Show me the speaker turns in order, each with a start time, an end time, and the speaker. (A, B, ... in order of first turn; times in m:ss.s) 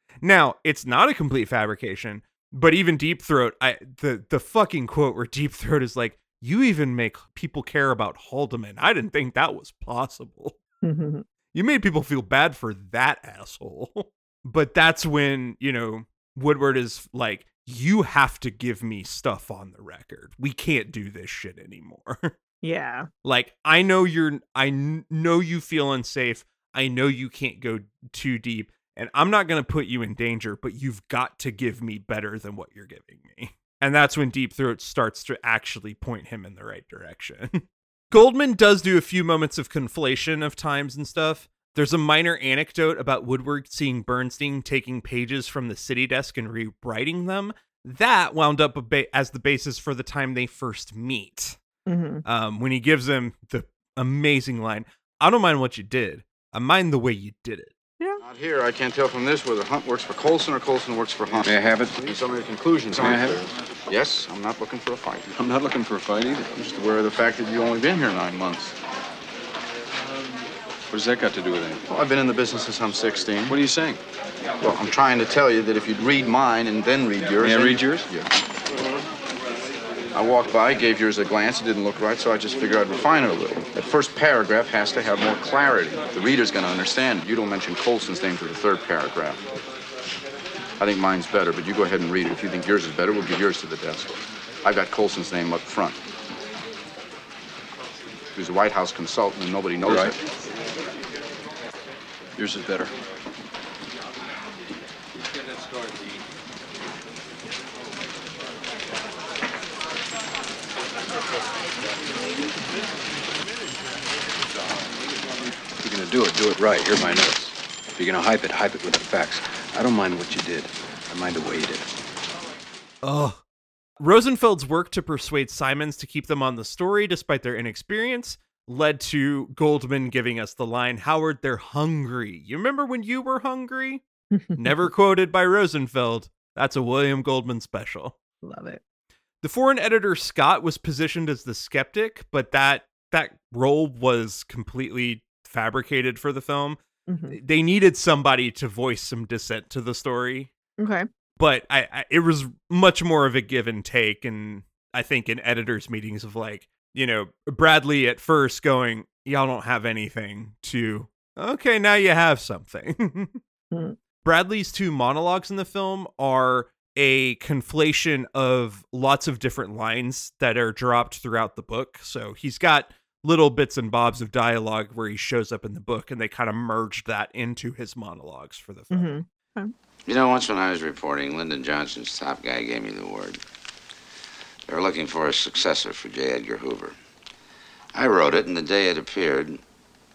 0:00.2-0:10.6 A
0:10.8-0:11.2 B
0:11.5-0:22.3 A
0:22.6-0:23.1 B
0:23.2-0:51.6 A
0:51.9-0:52.2 B
0:52.2-0:57.7 A
0:58.2-1:08.8 C
1:01.4-1:02.2 D
1:02.9-1:03.5 D
1:05.7-1:06.4 D
1:10.9-1:11.8 D
1:11.9-1:13.6 C
1:13.5-1:14.0 D
1:14.6-1:18.0 C
1:17.4-1:18.3 D
1:20.1-1:29.4 C
1:30.8-1:36.0 C
1:38.4-1:40.2 C
1:39.8-1:40.1 D
1:42.4-1:42.9 D
1:55.8-2:01.9 D
2:03.0-2:03.4 A
2:04.0-2:14.0 A
2:14.4-2:14.9 B
2:14.6-2:18.2 A
2:18.4-2:18.8 B
2:19.4-2:26.8 A
2:27.1-2:27.4 B
2:27.3-2:30.5 A
2:30.8-2:31.1 B
2:31.4-2:43.4 A
2:43.7-2:44.0 B
2:44.2-2:59.2 A
2:58.9-2:59.7 B
3:00.1-3:03.4 E
3:04.7-3:07.0 E
3:08.0-3:09.6 E